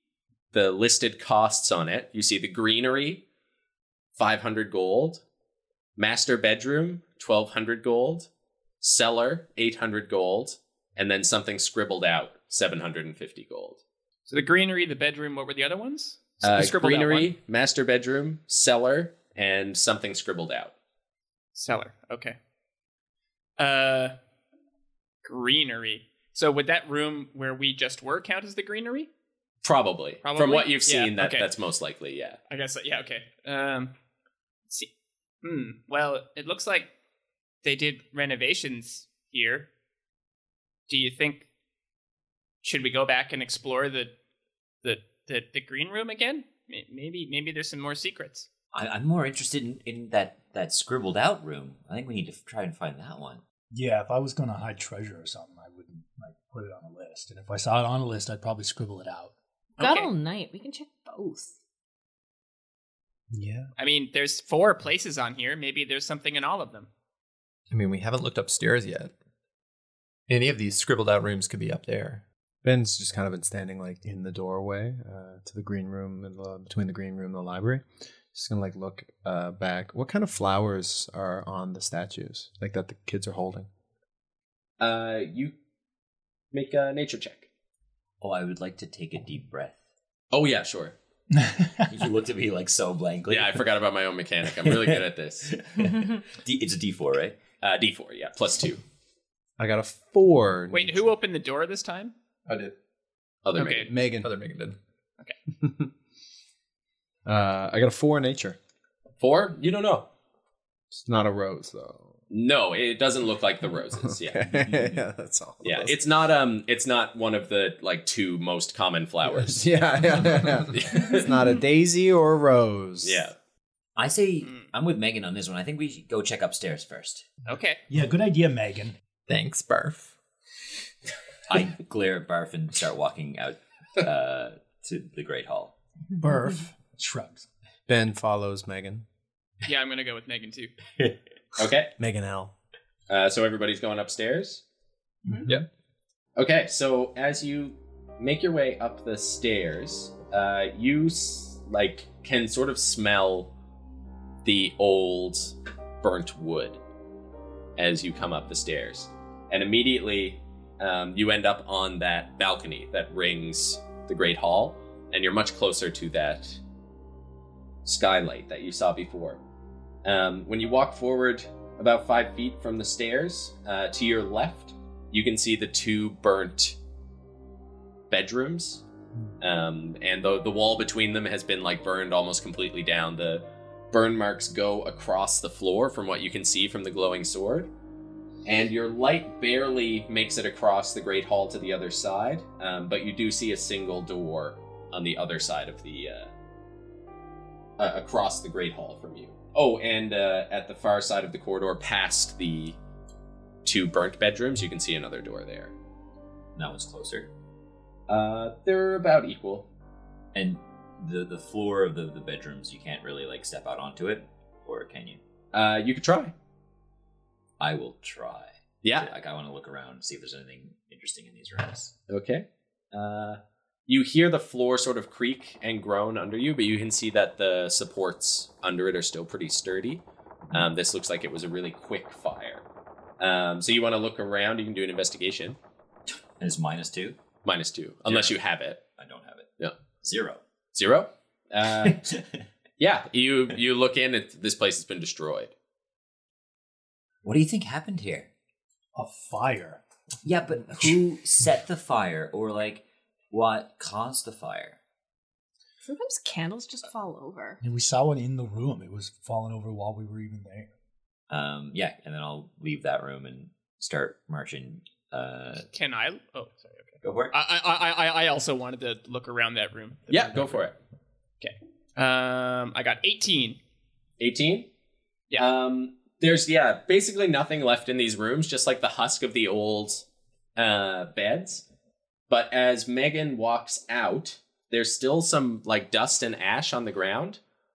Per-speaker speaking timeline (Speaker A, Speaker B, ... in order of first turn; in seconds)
Speaker A: 0.5-3.2, 4.2-5.2, 6.0-8.3, 8.8-13.8, 16.4-20.7, 29.6-32.4, 84.8-85.5, 86.5-87.5, 90.3-91.0, 93.3-95.6, 97.6-98.8, 103.4-103.9, 109.2-110.1, 112.3-114.7, 115.6-119.7, 120.7-121.3, 123.0-123.3, 141.6-141.9, 143.1-144.6, 146.3-153.5, 154.4-156.8, 157.8-166.6, 167.8-169.4, 170.0-176.8, 178.1-178.8, 179.4-187.7, 188.4-196.3, 197.8-202.8, 203.6-205.7, 208.1-209.7, 215.5-216.3, 218.8-219.1, 222.1-232.6, 233.2-235.6, 237.4-238.8, 240.7-242.1, 242.8-245.5, 270.1-270.8, 274.2-274.7, 275.4-281.6, 282.3-287.4
Speaker B: 14.3-17.3, 21.5-22.4, 23.6-24.2, 25.2-29.1, 30.2-31.5, 32.5-33.9, 35.4-36.9, 37.6-39.7, 40.9-41.5, 42.6-44.1, 44.8-48.5, 59.8-60.1, 63.8-66.9, 100.7-102.1, 103.5-103.9, 124.4-124.7, 127.5-127.8, 139.6-140.7, 265.7-270.6, 271.4-273.6
Speaker C: 48.7-53.4, 88.2-89.8, 91.9-93.8, 94.5-97.4, 124.0-127.3, 131.5-135.7, 206.6-207.3, 210.3-215.2, 217.6-221.9, 236.4-237.2, 238.1-238.4, 238.9-240.4, 241.8-242.4, 247.2-248.3, 250.2-254.8, 261.3-265.7, 267.0-267.3
Speaker D: 53.7-59.3, 91.3-91.9, 127.9-128.9, 136.1-137.4, 145.2-145.5, 248.9-249.8, 257.6-260.7
Speaker E: 59.8-61.5, 255.8-257.6
Speaker F: 63.3-63.7, 72.6-83.7, 99.6-101.1, 103.9-104.3, 105.6-105.9, 107.2-108.6, 110.9-112.1, 113.9-116.0, 119.3-123.2, 137.9-139.1, 142.0-142.5
Speaker G: 67.7-69.1, 70.3-72.2, 102.5-102.7, 104.2-104.8, 129.3-130.1